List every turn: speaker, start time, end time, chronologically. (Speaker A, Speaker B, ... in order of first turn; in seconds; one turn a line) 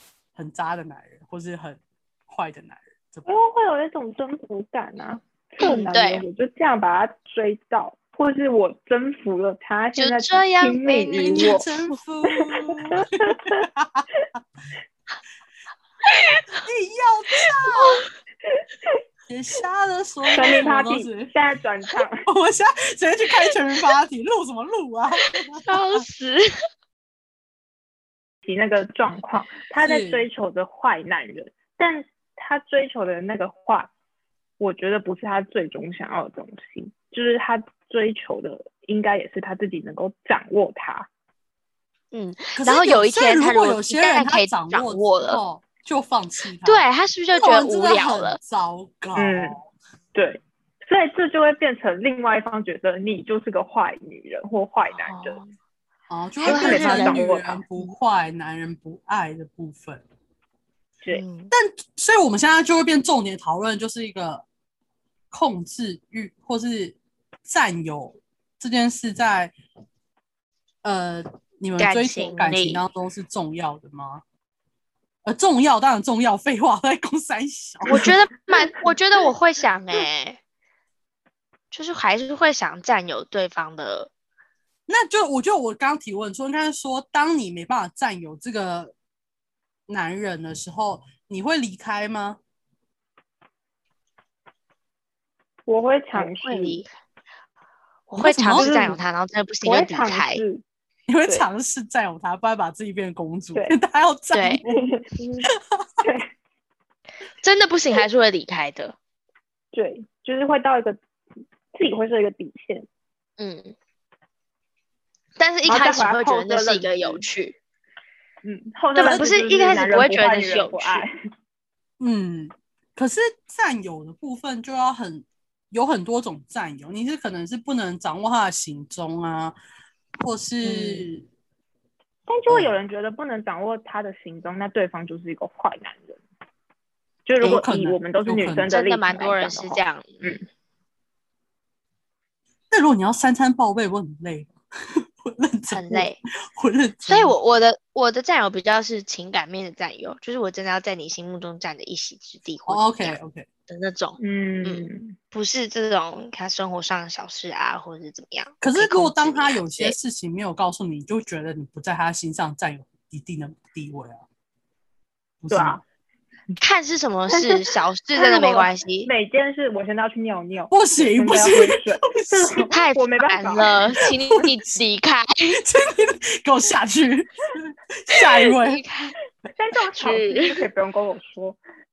Speaker A: 0.3-3.3
Speaker B: 3.2-11.6
Speaker C: 5.6-6.2
Speaker C: 9.9-11.6
Speaker A: 11.2-14.1
Speaker B: 12.4-13.7
Speaker C: 16.1-16.6
Speaker A: 16.6-18.0
Speaker A: 19.3-21.3
Speaker B: 20.3-22.2
Speaker A: 22.2-26.0
Speaker C: 25.5-26.5
Speaker B: 28.4-33.9
Speaker A: 29.8-30.2
Speaker B: 34.6-41.1
Speaker C: 42.1-45.4
Speaker A: 42.5-49.6
Speaker C: 46.6-48.4
Speaker B: 49.1-49.6
Speaker B: 50.1-55.4
Speaker C: 55.0-55.5
Speaker A: 56.1-60.0
Speaker C: 56.4-57.2
Speaker B: 56.4-57.6
Speaker C: 61.1-61.5
Speaker A: 61.5-64.4
Speaker A: 65.3-69.5
Speaker A: 70.8-74.2
Speaker C: 71.8-72.8
Speaker A: 75.2-78.1
Speaker C: 77.9-80.4
Speaker B: 77.9-78.9
Speaker C: 81.7-84.1
Speaker A: 84.9-88.9
Speaker A: 89.9-92.4
Speaker B: 95.7-96.8
Speaker C: 96.1-96.9
Speaker C: 98.1-100.4
Speaker A: 98.2-98.7
Speaker B: 98.4-99.0
Speaker B: 99.6-100.6
Speaker A: 101.1-104.8
Speaker C: 104.3-104.6
Speaker B: 104.7-105.5
Speaker A: 105.5-105.8
Speaker B: 106.0-106.3
Speaker C: 107.4-109.0
Speaker B: 109.7-111.0
Speaker B: 111.7-112.9
Speaker C: 113.4-113.7
Speaker C: 115.4-117.5
Speaker B: 115.7-117.2
Speaker B: 118.4-121.1
Speaker C: 118.9-121.1
Speaker A: 122.0-129.5
Speaker A: 130.2-131.2
Speaker C: 130.6-131.1
Speaker B: 132.3-136.2
Speaker A: 132.5-132.7
Speaker B: 137.2-140.4
Speaker A: 137.4-138.7
Speaker C: 138.7-140.4
Speaker A: 142.7-147.3
Speaker C: 145.7-146.2
Speaker C: 147.0-153.1
Speaker A: 152.7-153.5
Speaker C: 153.7-159.9
Speaker B: 154.2-155.1
Speaker A: 158.6-164.2
Speaker A: 165.4-165.8
Speaker B: 165.5-165.8
Speaker C: 166.6-169.1
Speaker B: 167.3-174.0
Speaker A: 170.7-172.7
Speaker C: 172.7-175.6
Speaker A: 175.5-178.8
Speaker C: 178.6-179.1
Speaker B: 179.5-181.6
Speaker C: 179.9-180.6